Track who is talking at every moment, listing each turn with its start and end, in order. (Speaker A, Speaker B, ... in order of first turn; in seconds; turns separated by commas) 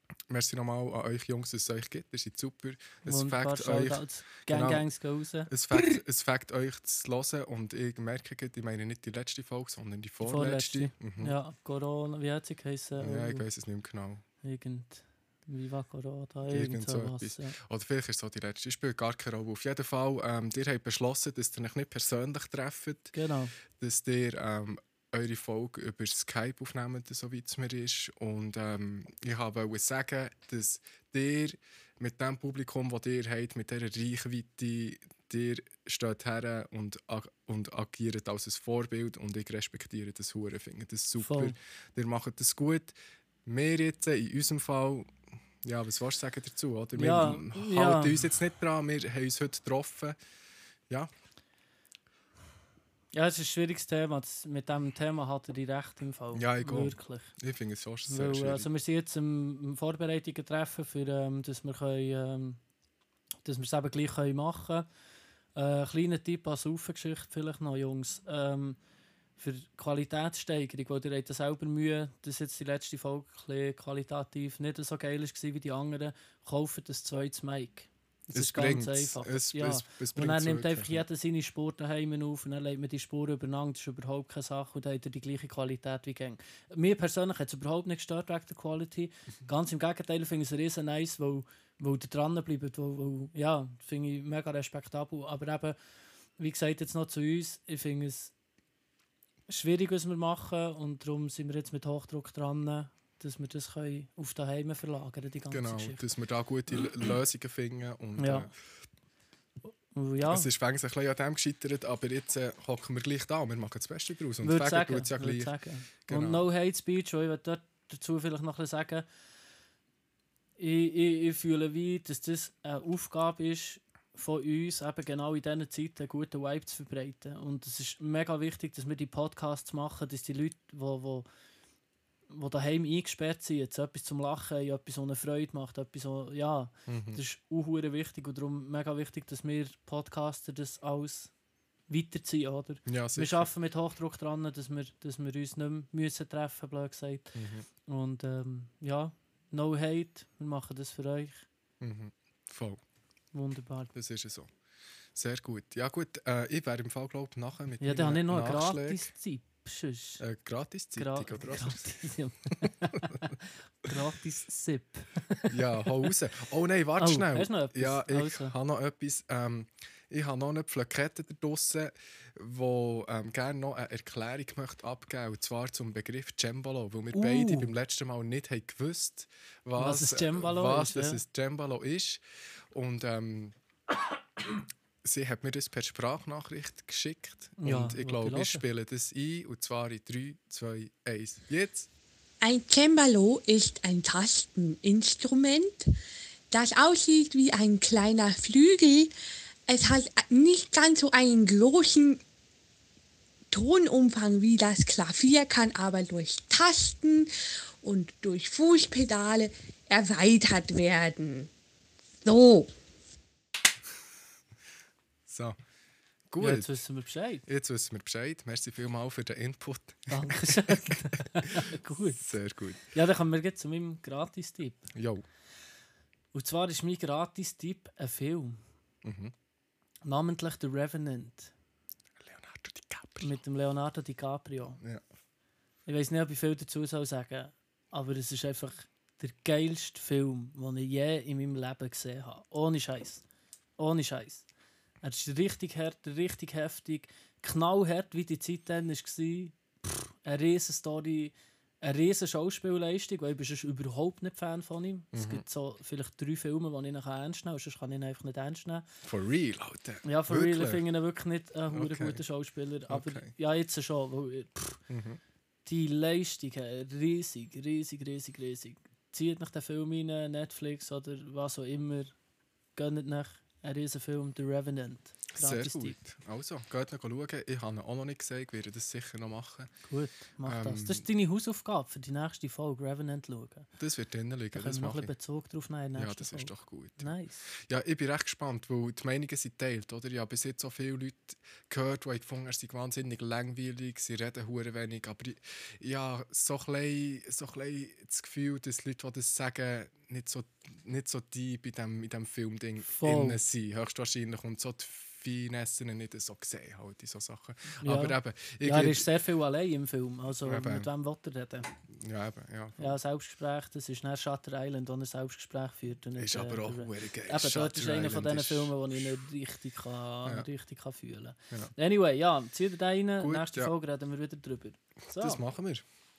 Speaker A: 0.3-4.9, Speaker B: 3.0-6.0, Speaker A: 5.5-11.3, Speaker B: 10.2-13.4, Speaker A: 13.0-14.2, Speaker B: 14.4-17.6, Speaker A: 16.5-23.1, Speaker B: 23.1-23.5, Speaker A: 23.7-42.9, Speaker B: 41.2-41.5, Speaker A: 43.5-45.1, Speaker A: 45.6-50.2, Speaker B: 46.9-48.3, Speaker B: 53.1-57.3, Speaker A: 56.3-58.7, Speaker B: 58.1-62.6, Speaker B: 63.4-64.9, Speaker B: 65.5-68.8, Speaker B: 69.4-95.8, Speaker A: 78.3-81.0, Speaker B: 96.4-98.3, Speaker B: 99.5-106.0, Speaker A: 105.5-108.5, Speaker B: 108.2-108.5, Speaker B: 109.9-110.5, Speaker A: 110.2-115.5, Speaker B: 114.4-119.0, Speaker A: 116.1-116.5, Speaker B: 120.6-131.3, Speaker B: 132.3-141.3, Speaker A: 136.9-137.2, Speaker B: 141.9-151.4, Speaker A: 142.8-143.5, Speaker A: 147.3-147.7, Speaker A: 151.8-152.8, Speaker B: 153.3-153.9, Speaker A: 153.9-154.5, Speaker A: 155.1-159.1, Speaker B: 157.8-160.2, Speaker A: 160.2-161.9, Speaker B: 160.9-165.6, Speaker A: 162.6-163.2, Speaker A: 165.4-183.6, Speaker B: 167.0-168.6, Speaker B: 177.1-177.7, Speaker B: 179.8-181.2, Speaker A: 185.0-191.9, Speaker B: 187.6-188.6, Speaker C: 192.4-195.9, Speaker C: 196.5-199.1, Speaker C: 199.7-202.2, Speaker C: 203.5-207.3, Speaker C: 207.8-211.5, Speaker C: 212.2-212.7, Speaker A: 215.3-215.6, Speaker A: 216.3-216.8, Speaker B: 216.4-217.4, Speaker A: 217.4-222.8, Speaker B: 220.1-222.3, Speaker B: 222.9-224.9, Speaker A: 224.9-225.2, Speaker B: 226.3-228.6, Speaker A: 229.0-229.3, Speaker B: 230.0-231.5, Speaker A: 232.2-233.3, Speaker B: 233.2-234.8, Speaker B: 235.8-243.2, Speaker B: 243.8-244.4, Speaker B: 245.0-258.8, Speaker A: 255.1-255.4, Speaker A: 259.0-260.8, Speaker B: 260.0-264.8, Speaker A: 261.7-262.2, Speaker A: 262.9-263.3, Speaker A: 264.9-265.2, Speaker B: 265.6-272.1, Speaker B: 272.8-276.0, Speaker A: 275.3-279.7, Speaker B: 279.9-283.7, Speaker A: 280.4-281.0, Speaker A: 283.8-285.1, Speaker B: 284.5-287.4, Speaker A: 285.9-309.1, Speaker B: 302.8-303.4, Speaker B: 307.8-311.7, Speaker A: 310.4-310.9, Speaker A: 311.9-312.9, Speaker B: 312.8-325.4, Speaker A: 316.2-319.2, Speaker A: 323.2-323.7, Speaker A: 325.1-325.8